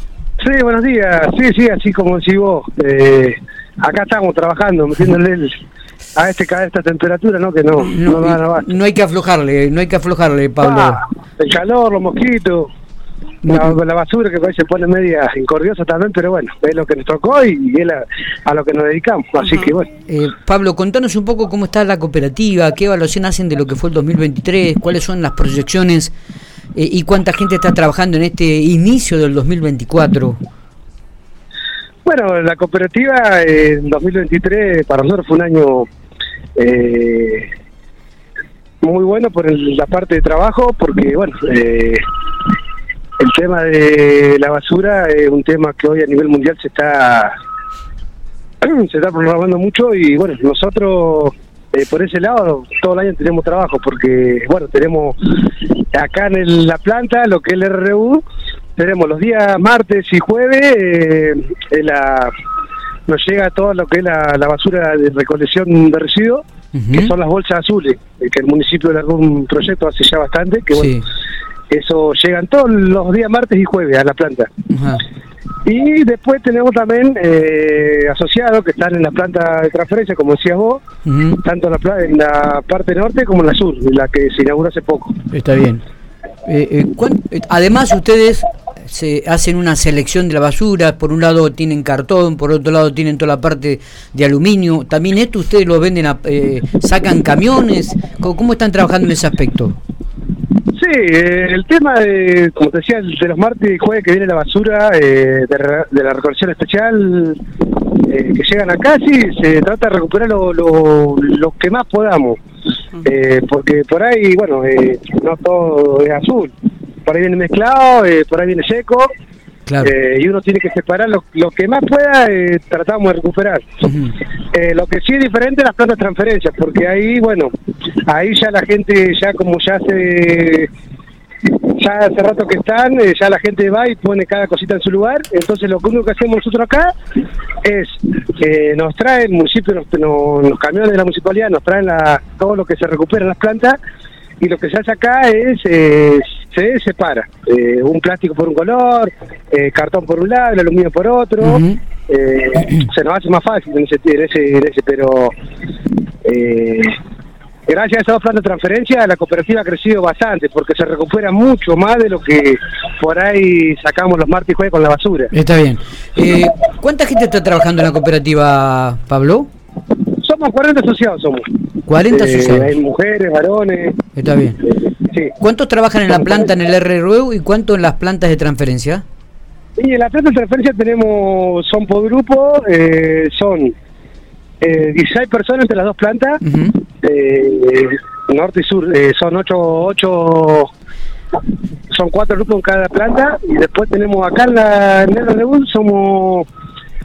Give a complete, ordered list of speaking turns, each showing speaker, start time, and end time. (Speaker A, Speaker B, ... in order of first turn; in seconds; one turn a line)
Speaker A: 0.4-5.6
Speaker A: 6.2-8.7
Speaker B: 7.9-11.0
Speaker A: 10.6-12.7
Speaker B: 13.4-13.8
Speaker A: 13.5-19.9
Speaker B: 20.1-26.1
Speaker B: 26.8-30.4
Speaker A: 32.1-35.9
Speaker A: 36.6-37.5
Speaker A: 38.8-42.0
Speaker A: 43.2-47.4
Speaker A: 48.6-58.2
Speaker A: 58.8-62.3
Speaker A: 63.1-71.0
Speaker B: 66.7-67.1
Speaker B: 70.7-71.0
Speaker A: 71.7-74.5
Speaker B: 74.7-75.0
Speaker A: 75.7-80.8
Speaker B: 81.0-81.4
Speaker A: 81.4-85.1
Speaker B: 85.3-85.8
Speaker B: 86.5-99.8
Speaker A: 100.8-107.4
Speaker A: 108.0-112.4
Speaker A: 113.0-116.5
Speaker A: 117.1-119.1
Speaker B: 119.7-119.9
Speaker A: 119.8-123.7
Speaker B: 123.8-124.2
Speaker A: 124.5-127.5
Speaker A: 128.1-130.7
Speaker A: 131.7-136.9
Speaker A: 137.6-143.8
Speaker A: 144.4-155.3
Speaker B: 151.4-151.8
Speaker A: 156.2-157.0
Speaker A: 157.7-165.3
Speaker B: 165.3-169.5
Speaker A: 170.2-171.5
Speaker B: 171.9-172.8
Speaker A: 172.1-174.0
Speaker B: 174.2-174.6
Speaker A: 174.7-175.3
Speaker B: 175.4-179.0
Speaker A: 176.1-176.5
Speaker A: 179.8-183.7
Speaker A: 184.6-186.4
Speaker B: 186.4-186.8
Speaker A: 187.0-190.7
Speaker A: 191.9-196.5